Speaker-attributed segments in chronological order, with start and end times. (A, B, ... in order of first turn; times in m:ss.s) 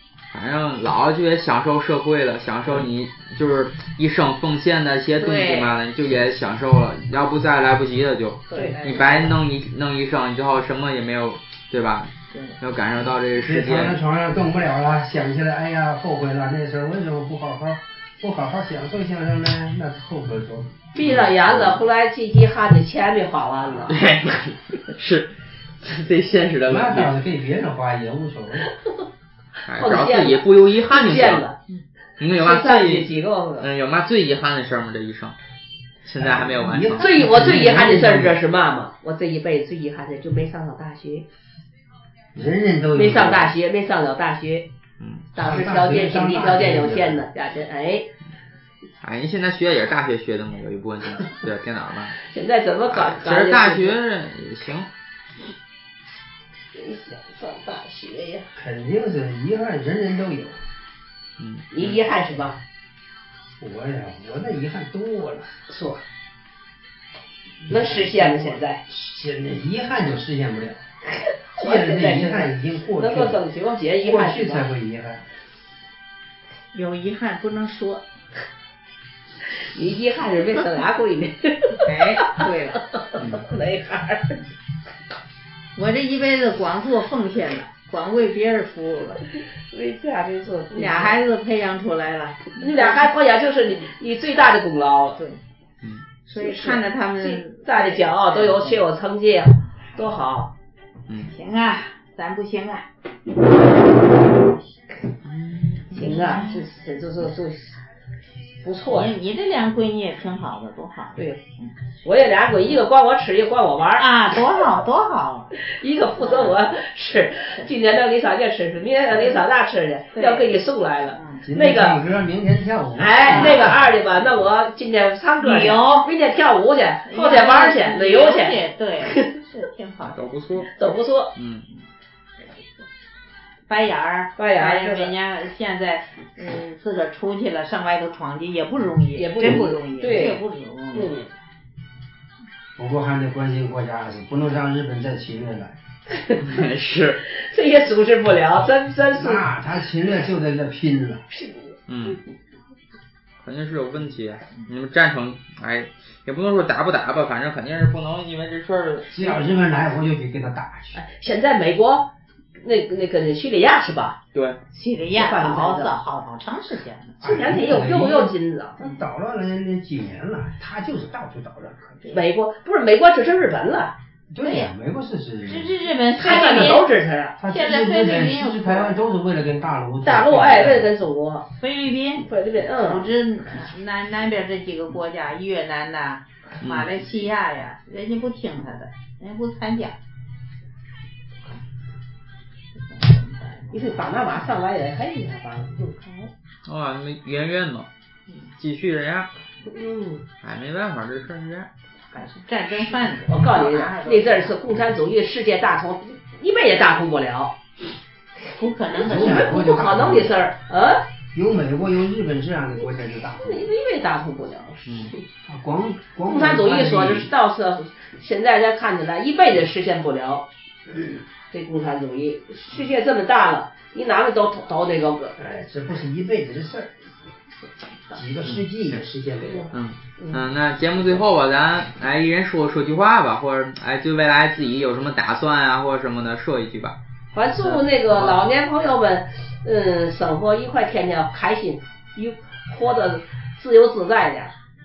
0:00.3-0:14.0 A
0:05.2-0:05.7 B
0:08.5-0:09.4 B
0:08.5-0:08.8 C
0:12.3-0:12.6 B
0:13.4-0:20.8 D
0:20.9-0:24.0 C
0:21.0-0:21.8 A
0:23.9-0:27.1 A
0:26.7-0:28.7 D
0:29.6-0:31.4 A
0:29.8-0:31.6 C
0:32.2-0:35.4 A
0:32.4-0:33.7 C
0:36.0-0:37.0 A
0:36.2-0:38.4 D
0:37.0-0:41.2 C
0:42.3-0:43.5 D
0:42.9-0:44.7 C
0:45.0-0:45.3 A
0:45.3-0:48.1 C
0:45.4-0:47.2 D
0:49.0-0:52.2 A
0:52.2-0:54.0 C
0:52.9-0:54.9 A
0:56.7-0:58.5 C
0:58.6-1:00.6 D
1:01.4-1:02.0 A
1:01.7-1:02.6 C
1:03.6-1:05.5 D
1:05.7-1:06.0 C
1:07.7-1:08.8 C
1:07.7-1:10.8 D
1:11.3-1:14.7 C
1:11.6-1:13.4 D
1:14.0-1:15.2 D
1:16.7-1:18.0 B
1:19.6-1:21.8 C
1:21.8-1:22.8 B
1:22.4-1:24.4 C
1:23.2-1:23.4 D
1:25.8-1:29.2 B
1:29.7-1:31.2 C
1:30.7-1:33.1 B
1:32.6-1:35.2 C
1:36.2-1:38.8 B
1:36.4-1:40.5 C
1:41.2-1:42.8 B
1:45.2-1:46.0 A
1:45.9-1:46.7 B
1:45.9-1:47.8 C
1:48.6-1:49.1 C
1:48.9-1:51.7 B
1:52.0-1:54.0 C
1:54.0-1:55.5 B
1:55.5-2:02.0 C
1:56.2-1:56.6 B
2:00.1-2:00.5 B
2:01.1-2:01.4 B
2:01.4-2:03.8 D
2:03.0-2:09.3 C
2:03.2-2:03.8 B
2:05.4-2:06.1 B
2:07.0-2:10.2 B
2:10.1-2:10.7 A
2:10.7-2:11.3 C
2:11.4-2:11.6 A
2:12.5-2:12.8 B
2:13.7-2:21.1 B
2:14.4-2:15.1 C
2:19.1-2:20.4 C
2:20.9-2:21.3 C
2:22.8-2:25.8 D
2:26.4-2:27.2 A
2:27.3-2:29.4 C
2:29.1-2:31.2 D
2:31.3-2:31.8 C
2:31.9-2:32.2 A
2:33.4-2:39.4 A
2:39.1-2:41.0 D
2:40.9-2:42.1 C
2:42.6-2:44.2 C
2:44.7-2:47.7 B
2:45.1-2:46.0 C
2:47.2-2:52.2 D
2:47.2-2:48.8 C
2:52.0-2:53.9 C
2:54.3-2:55.7 D
2:54.4-2:54.7 B
2:55.5-2:56.8 B
2:56.2-2:57.4 C
2:57.4-3:00.9 D
2:57.5-2:59.0 B
3:00.0-3:01.4 C
3:01.5-3:10.0 B
3:02.2-3:03.0 C
3:06.6-3:06.9 A
3:12.8-3:14.0 B
3:13.7-3:16.0 C
3:16.0-3:16.3 B
3:16.6-3:17.9 A
3:18.6-3:19.3 A
3:19.7-3:20.2 C
3:20.4-3:21.7 A
3:22.1-3:24.6 B
3:23.3-3:27.5 C
3:28.4-3:29.6 B
3:29.0-3:30.4 D
3:29.0-3:31.0 C
3:31.3-3:33.7 D
3:33.4-3:35.2 C
3:34.8-3:35.1 A
3:35.5-3:37.3 D
3:36.3-3:40.4 C
3:41.5-3:45.3 C
3:45.4-3:46.9 D
3:48.1-3:49.7 D
3:49.5-3:50.4 C
3:49.7-3:57.0 A
3:57.3-4:04.5 C
3:57.6-3:58.4 A